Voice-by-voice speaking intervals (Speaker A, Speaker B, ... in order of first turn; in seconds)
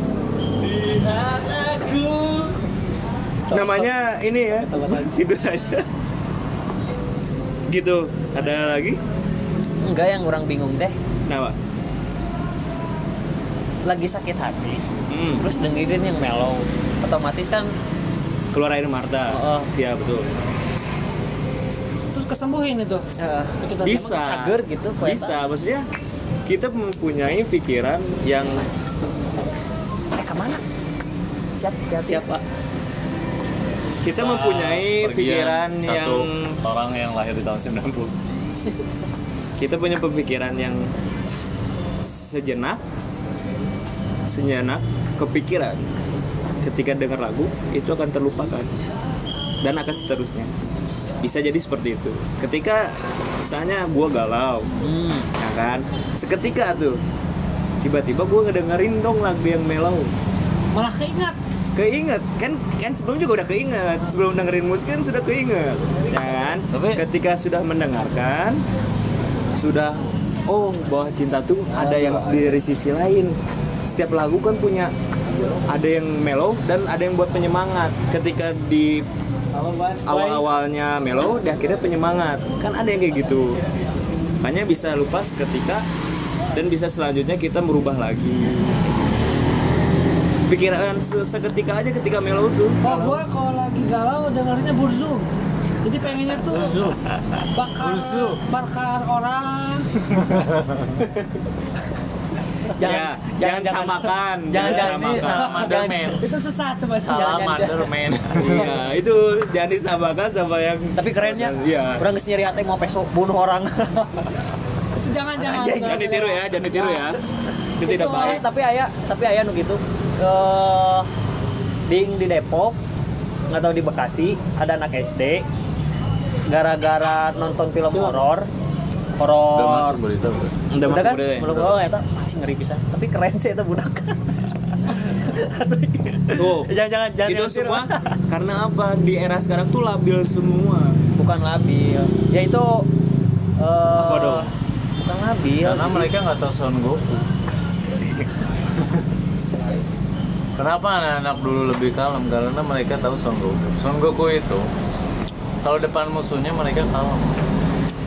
Speaker A: 0.6-2.6, 34.1-38.2, 66.7-67.0, 96.5-97.0, 97.8-98.4, 104.6-106.3, 107.0-108.8, 129.6-130.6, 145.6-147.2, 148.8-149.1, 150.6-154.7, 155.6-157.3
Speaker B: 3.5-3.9, 4.6-5.3, 9.8-10.9, 13.9-14.8, 15.4-17.7, 19.3-19.7, 23.2-25.4, 30.2-30.6, 31.6-32.3, 54.8-55.3, 71.8-72.6, 102.8-106.2, 107.1-107.9, 111.0-114.2, 115.8-117.2, 117.8-121.1, 121.9-122.8, 123.5-125.5, 126.5-128.5, 129.2-130.0, 130.8-138.2, 141.2-142.9, 143.6-146.1
Speaker C: 3.5-5.9, 7.7-9.0, 11.3-11.6, 15.1-15.4, 18.5-20.3, 23.8-25.9, 26.5-28.6, 32.1-32.4, 34.0-36.6, 39.6-40.9, 42.0-42.8, 44.3-45.9, 46.6-48.7, 49.6-50.5, 51.2-54.7, 55.4-57.0, 57.8-60.1, 61.8-68.6, 69.6-73.3, 73.9-74.9, 75.7-79.0, 79.9-83.6, 84.4-85.8, 86.5-88.8, 90.5-93.2, 102.8-105.8, 108.3-112.0, 115.4-117.2, 117.8-118.5, 130.7-131.8, 136.4-136.7, 137.3-141.0, 143.9-144.5, 148.0-148.2
Speaker D: 22.1-23.1, 23.6-24.1, 60.7-61.4, 79.7-80.4, 92.8-95.3, 95.8-96.8, 97.5-99.9, 106.1-107.6, 115.0-116.4, 117.9-118.4